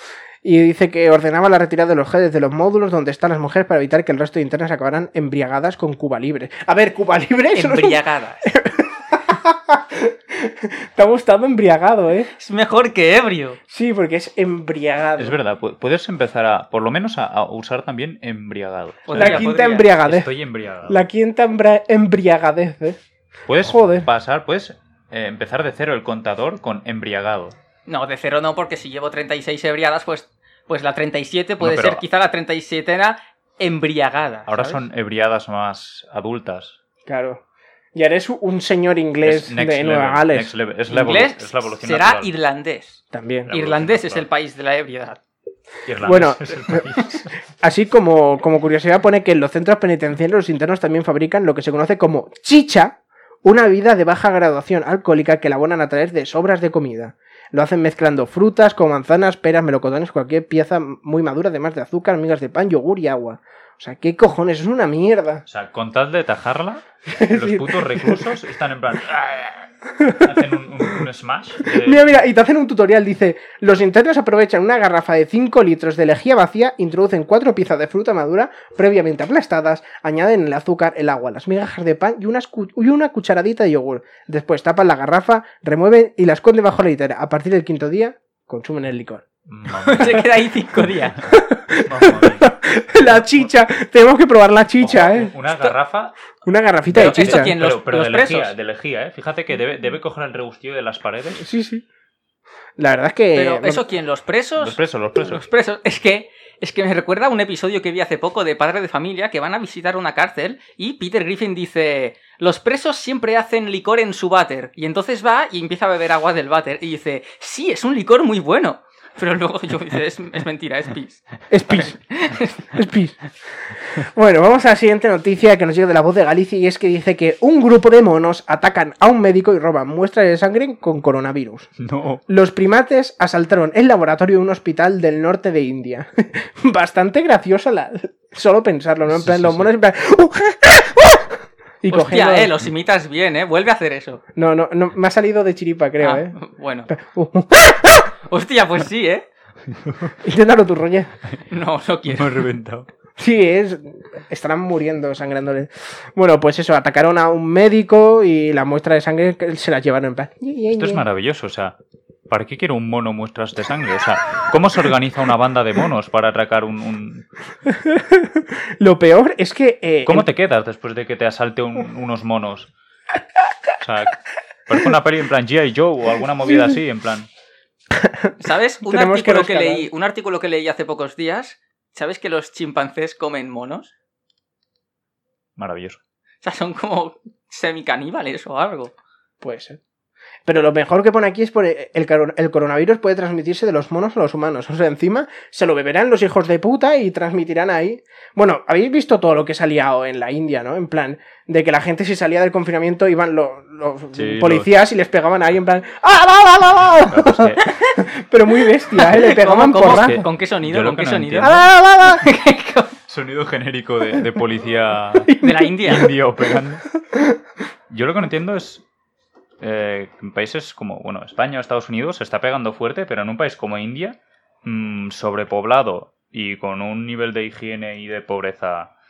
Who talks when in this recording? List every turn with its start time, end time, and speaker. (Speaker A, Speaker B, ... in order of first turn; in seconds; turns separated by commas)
Speaker A: 0.4-12.3, Speaker B: 7.5-8.5, Speaker B: 12.4-13.6, Speaker A: 13.7-15.4, Speaker C: 15.2-19.5, Speaker B: 19.1-19.9, Speaker A: 19.1-20.3, Speaker C: 20.0-21.0, Speaker A: 20.9-23.0, Speaker C: 23.5-27.5, Speaker A: 23.6-24.1, Speaker B: 27.9-34.8, Speaker C: 31.6-32.0, Speaker C: 34.5-36.8, Speaker A: 37.0-37.4, Speaker A: 37.9-40.5, Speaker C: 39.2-42.3, Speaker B: 40.9-45.2, Speaker A: 43.1-43.5, Speaker C: 43.5-44.3, Speaker C: 45.9-47.3, Speaker A: 46.0-65.4, Speaker C: 65.5-72.2, Speaker A: 67.1-68.2, Speaker A: 70.0-70.3, Speaker A: 71.7-89.2, Speaker C: 89.5-90.9, Speaker B: 89.8-91.2, Speaker A: 91.2-95.3, Speaker C: 91.8-93.3, Speaker C: 94.8-96.2, Speaker A: 96.4-97.5, Speaker C: 96.9-101.4, Speaker B: 96.9-98.5, Speaker A: 101.4-101.8, Speaker A: 102.8-103.8, Speaker B: 103.3-122.7, Speaker C: 104.6-105.4, Speaker A: 121.5-122.0, Speaker A: 122.7-123.2, Speaker A: 123.9-131.7, Speaker C: 131.8-132.2, Speaker A: 132.3-142.5, Speaker C: 139.1-139.7, Speaker B: 141.9-144.2, Speaker A: 144.3-146.4, Speaker B: 146.0-146.9, Speaker A: 146.9-148.1, Speaker B: 148.3-149.3, Speaker C: 149.8-150.1, Speaker A: 150.2-151.1, Speaker B: 151.5-152.4, Speaker C: 152.1-152.9, Speaker A: 153.2-161.0, Speaker C: 160.7-161.8, Speaker C: 162.3-167.3, Speaker A: 167.7-170.3, Speaker C: 170.0-172.7, Speaker C: 173.8-177.3, Speaker A: 177.9-178.3, Speaker B: 178.4-183.9, Speaker A: 178.8-179.9, Speaker C: 185.6-186.0, Speaker B: 186.4-188.9, Speaker A: 189.4-189.8, Speaker A: 190.4-210.2, Speaker C: 204.1-204.7, Speaker C: 207.0-207.7, Speaker B: 208.9-212.9, Speaker C: 209.9-211.7, Speaker A: 211.4-212.2, Speaker C: 213.1-216.9, Speaker A: 215.2-216.1, Speaker B: 215.4-216.1, Speaker A: 217.1-217.4, Speaker C: 217.9-218.8, Speaker C: 219.6-228.9